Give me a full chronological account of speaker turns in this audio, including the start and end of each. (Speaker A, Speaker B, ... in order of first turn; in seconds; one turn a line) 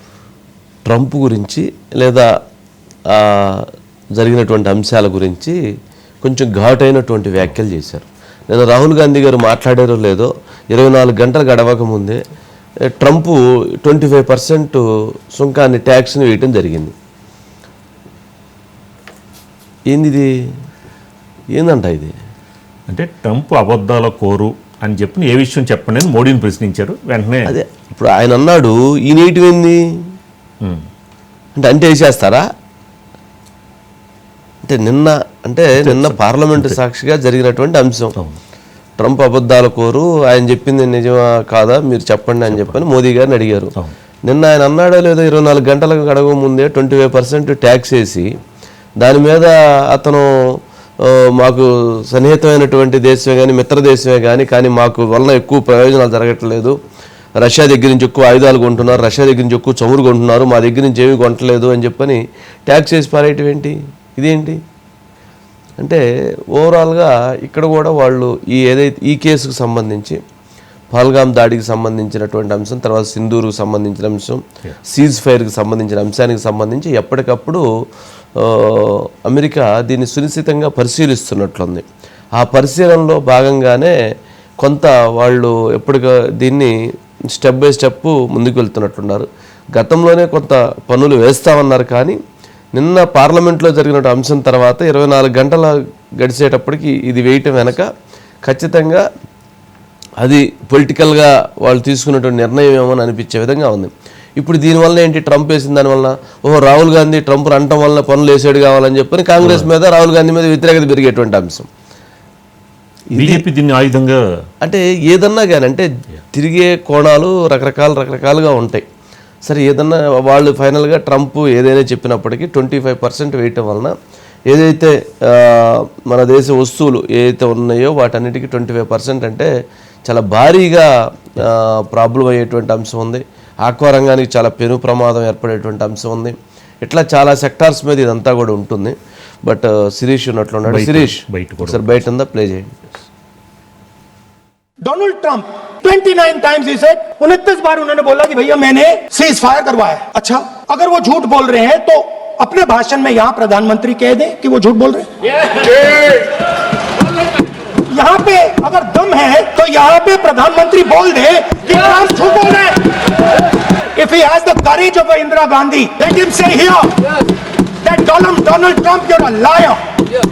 Speaker A: 0.8-2.3
Speaker A: 3.1-3.6
Speaker A: 4.2-5.5
Speaker A: 6.2-12.2
Speaker A: 12.9-14.8
Speaker A: 15.3-16.9
Speaker A: 19.9-20.3
Speaker A: 21.5-22.1
Speaker B: 22.9-27.5
Speaker A: 27.4-29.8
Speaker A: 31.6-32.4
Speaker A: 34.6-38.1
Speaker B: 35.7-36.8
Speaker A: 39.0-43.7
Speaker B: 42.5-42.8
Speaker A: 44.3-48.3
Speaker A: 49.0-50.3
Speaker A: 51.0-56.8
Speaker A: 57.4-64.6
Speaker A: 66.5-70.2
Speaker A: 70.9-77.6
Speaker A: 78.4-81.8
Speaker A: 82.4-83.9
Speaker A: 84.6-86.7
Speaker A: 87.3-92.2
Speaker A: 92.8-97.9
Speaker A: 98.5-99.0
Speaker A: 100.2-111.7
Speaker B: 109.4-109.7
Speaker A: 113.1-113.4
Speaker B: 113.1-114.2
Speaker A: 114.6-118.8
Speaker A: 119.5-123.9
Speaker A: 124.5-129.5
Speaker A: 130.1-138.9
Speaker A: 139.4-142.8
Speaker B: 140.7-141.8
Speaker C: 144.8-155.1
Speaker C: 157.9-162.8
Speaker C: 163.9-166.9
Speaker C: 167.8-169.8